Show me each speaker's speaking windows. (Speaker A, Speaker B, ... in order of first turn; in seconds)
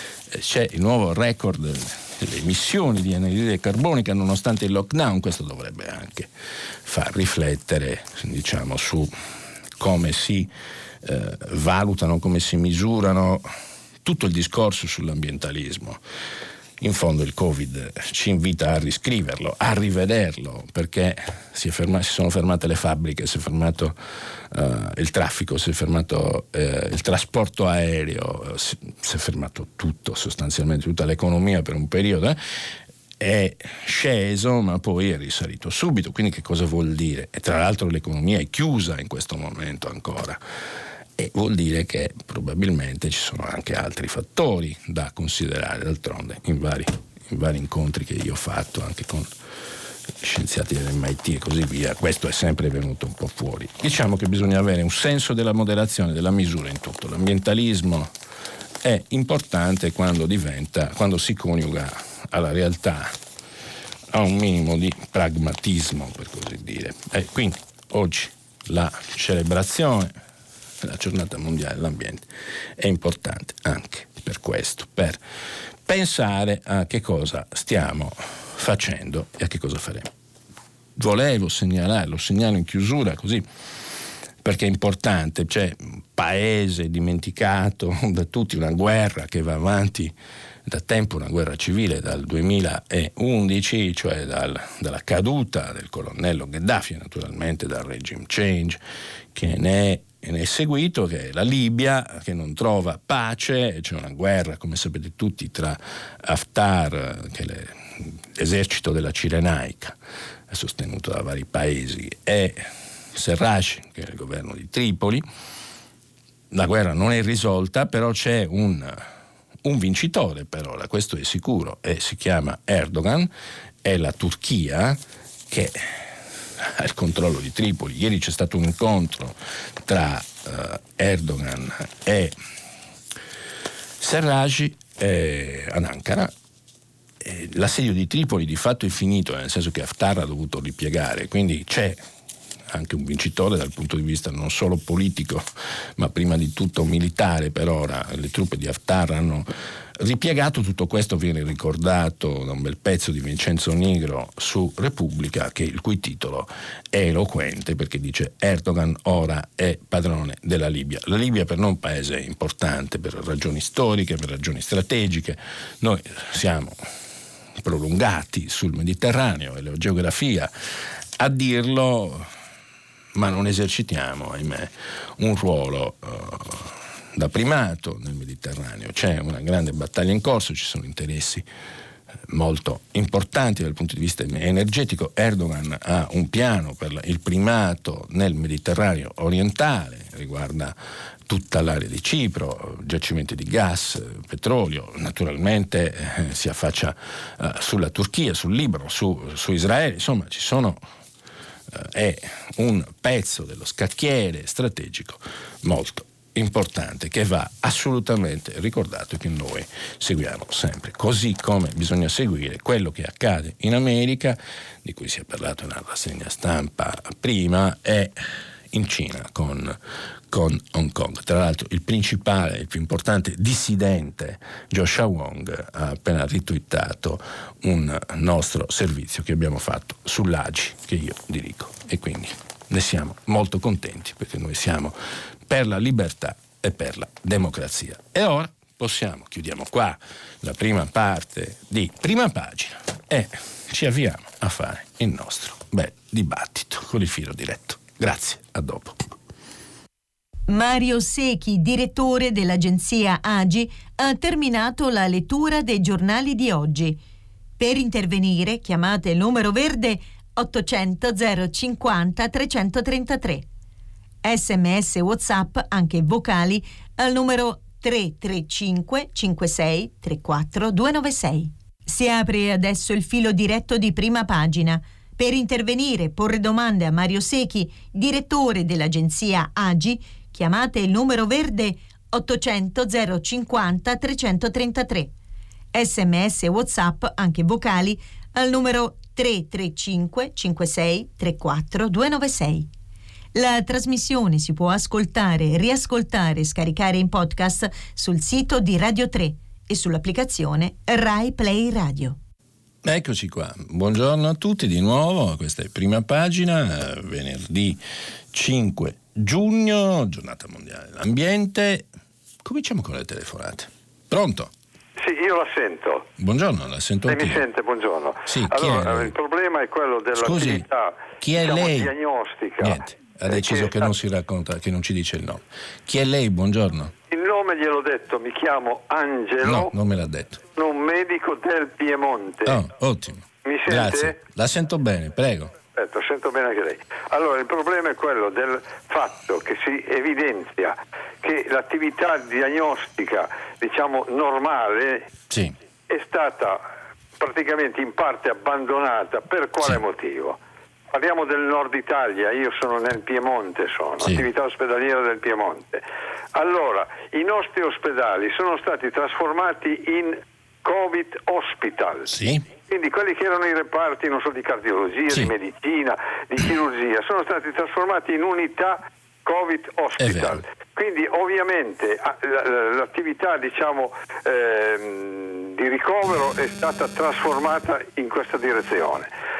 Speaker A: 0.3-6.3, 6.8-9.1, 9.8-10.5, 11.0-13.5, 14.0-16.0, 16.8-24.0, 24.5-32.4, 33.2-40.4, 41.2-49.3, 50.2-58.1, 58.8-63.2, 64.1-70.2, 70.8-72.2, 72.8-75.2, 75.9-80.1, 81.0-83.5, 84.4-90.1, 90.7-98.8, 99.3-110.0, 110.5-115.2, 116.5-119.1, 119.6-123.3, 123.8-125.0, 125.5-132.3, 134.0-136.3, 137.2-142.0, 142.7-166.8, 167.6-170.5, 171.2-172.3, 173.2-181.4, 182.3-190.8, 191.3-200.8, 201.7-218.2, 218.7-219.8, 220.3-235.0, 235.5-249.0, 302.8-307.8, 308.3-311.9, 312.4-314.5, 316.2-317.4, 318.3-319.1, 320.1-320.6, 321.2-321.9, 322.6-326.9, 329.4-330.4, 332.4-335.5, 345.3-345.6, 362.1-362.4, 370.0-370.4
Speaker B: 250.5-257.0, 257.6-263.4, 264.2-285.1, 285.7-292.7, 293.3-302.2
Speaker C: 315.0-316.1, 317.1-323.9, 327.1-329.7, 330.5-332.6, 333.4-334.2, 335.7-345.1, 345.9-346.6, 347.2-350.4, 350.9-355.8, 356.3-362.1, 362.7-379.1